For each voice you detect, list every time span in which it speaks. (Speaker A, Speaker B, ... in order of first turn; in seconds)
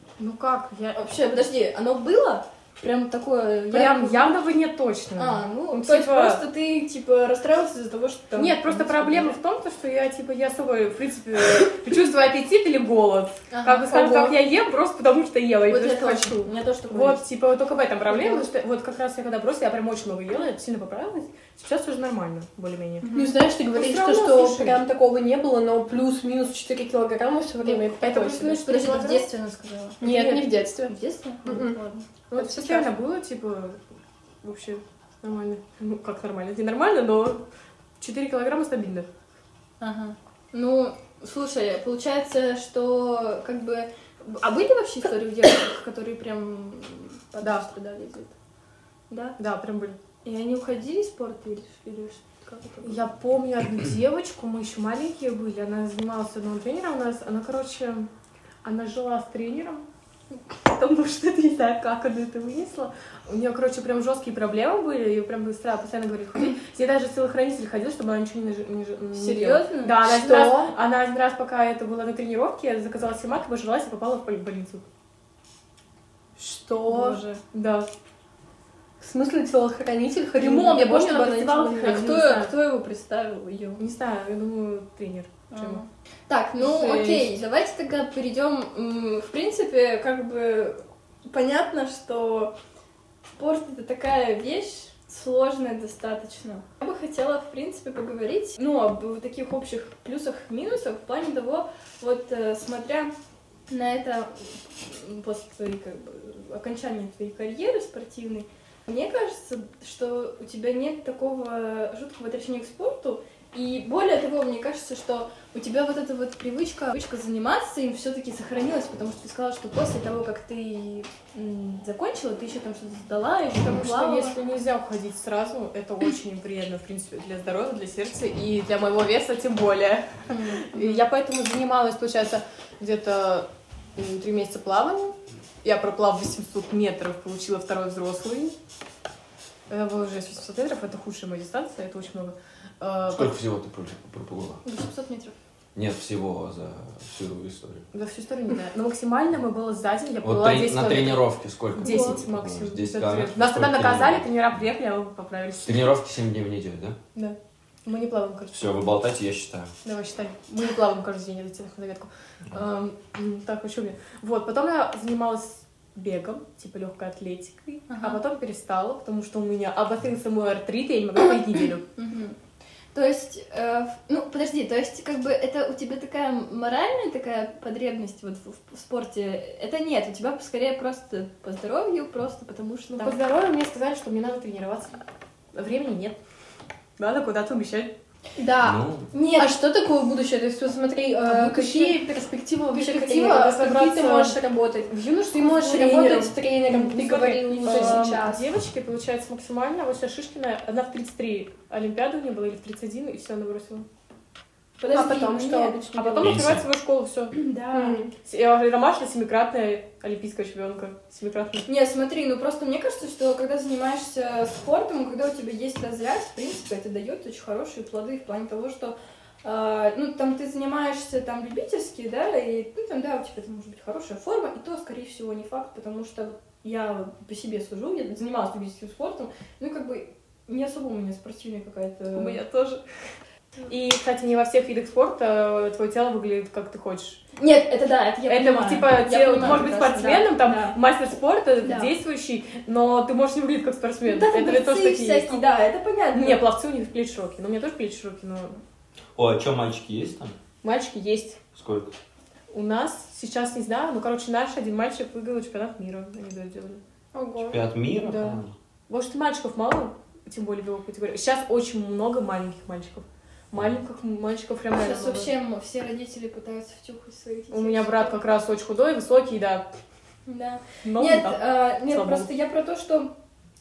Speaker A: 0.2-1.0, 3.7-6.4, 8.3-23.1, 23.7-24.8, 27.7-29.3, 30.0-30.5, 32.3-33.8, 34.4-37.5, 38.0-39.1, 49.4-50.0, 52.8-58.1, 58.6-59.9, 60.5-74.9, 77.0-77.9, 80.4-82.5, 83.8-85.8, 86.6-87.3, 123.6-138.6, 139.7-143.3, 147.9-155.9, 157.2-158.6, 159.8-171.8, 183.0-185.0, 185.5-186.2, 187.0-187.9, 191.3-192.0, 192.7-203.9, 205.9-207.4, 208.2-211.7, 232.1-232.8, 233.7-237.2, 238.3-245.5, 246.1-248.6, 250.6-251.4, 252.5-256.8, 258.9-265.3, 267.5-269.7, 270.8-272.3
Speaker B: 0.9-4.3, 5.2-9.4, 13.5-14.0, 15.7-17.2, 18.1-18.5, 23.0-23.4, 28.1-30.3, 30.9-32.1, 39.8-48.3, 49.1-49.4, 50.2-53.0, 69.1-70.1, 76.9-77.4, 81.8-83.8, 85.5-92.5, 93.4-103.2, 103.7-124.4, 130.3-131.1, 144.6-145.4, 167.9-168.2, 171.9-172.4, 172.9-183.2, 189.1-189.6, 197.5-198.2, 204.8-205.8, 207.3-208.1, 211.7-232.4, 237.4-240.8, 241.6-241.9, 244.1-246.4, 264.8-268.2, 270.3-273.1
Speaker C: 13.9-14.3, 23.1-28.6, 30.0-31.8, 32.4-32.9, 70.0-70.7, 76.4-77.2, 79.0-82.1, 151.8-152.2, 188.4-188.8, 189.4-198.4, 204.9-206.4, 207.7-208.1, 257.1-258.4
Speaker D: 143.1-144.6, 145.8-147.9, 150.2-154.3, 155.7-157.0, 158.5-159.7, 188.6-189.1, 206.2-206.7, 249.2-250.4, 251.5-251.9, 257.4-258.6